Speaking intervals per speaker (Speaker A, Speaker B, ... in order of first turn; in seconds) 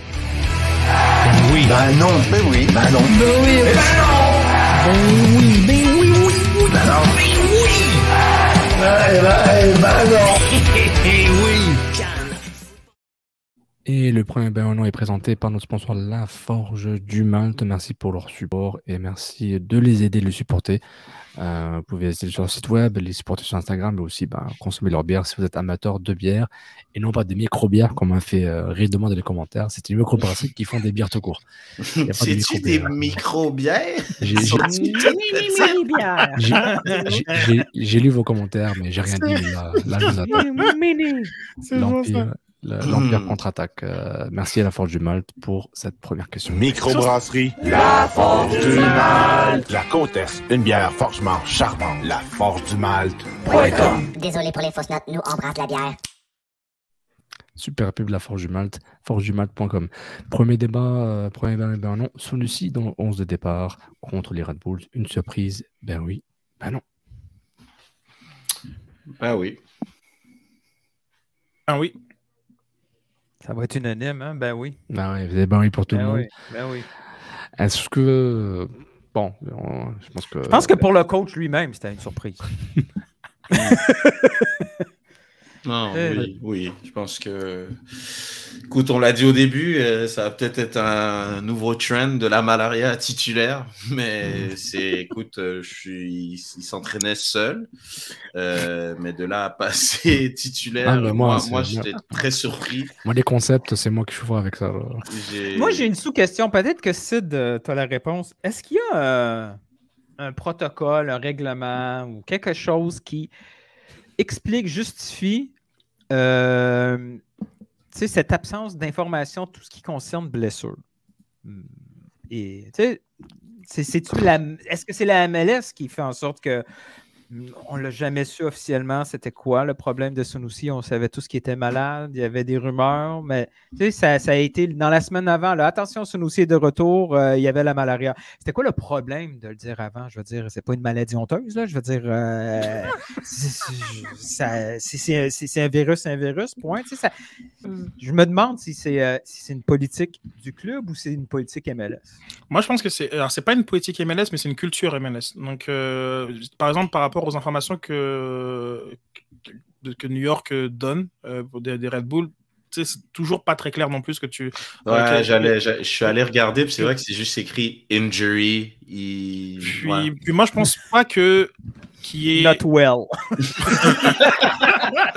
Speaker A: 1.6-4.3, 6.2-8.0, 8.8-11.9, 46.5-54.1
Speaker B: 2.2-2.7, 31.9-35.4, 42.8-43.4, 69.2-69.6, 85.6-97.7, 98.3-102.9, 105.0-105.8, 164.8-170.1, 173.9-174.7
Speaker C: 3.2-3.8, 34.4-37.2, 40.3-41.3, 73.4-74.8, 75.9-76.9, 80.5-82.4, 83.7-84.3, 85.9-86.3, 105.5-109.6, 110.2-113.3, 114.2-115.5, 116.1-117.2, 117.9-120.8, 122.3-123.0, 123.7-126.6, 127.3-147.1, 148.0-152.1, 172.3-173.1
Speaker D: 13.8-20.8, 21.4-31.4, 32.0-33.2, 34.2-34.7, 36.4-36.6, 37.2-40.5, 41.7-46.8, 57.5-66.8, 74.9-76.3, 77.6-80.9, 100.8-101.9, 103.0-105.0
Speaker E: 36.6-37.2, 39.1-39.4, 41.6-42.3, 71.7-71.9, 152.5-159.0, 159.8-165.5, 169.6-172.6, 173.8-174.1
Speaker F: 53.5-56.0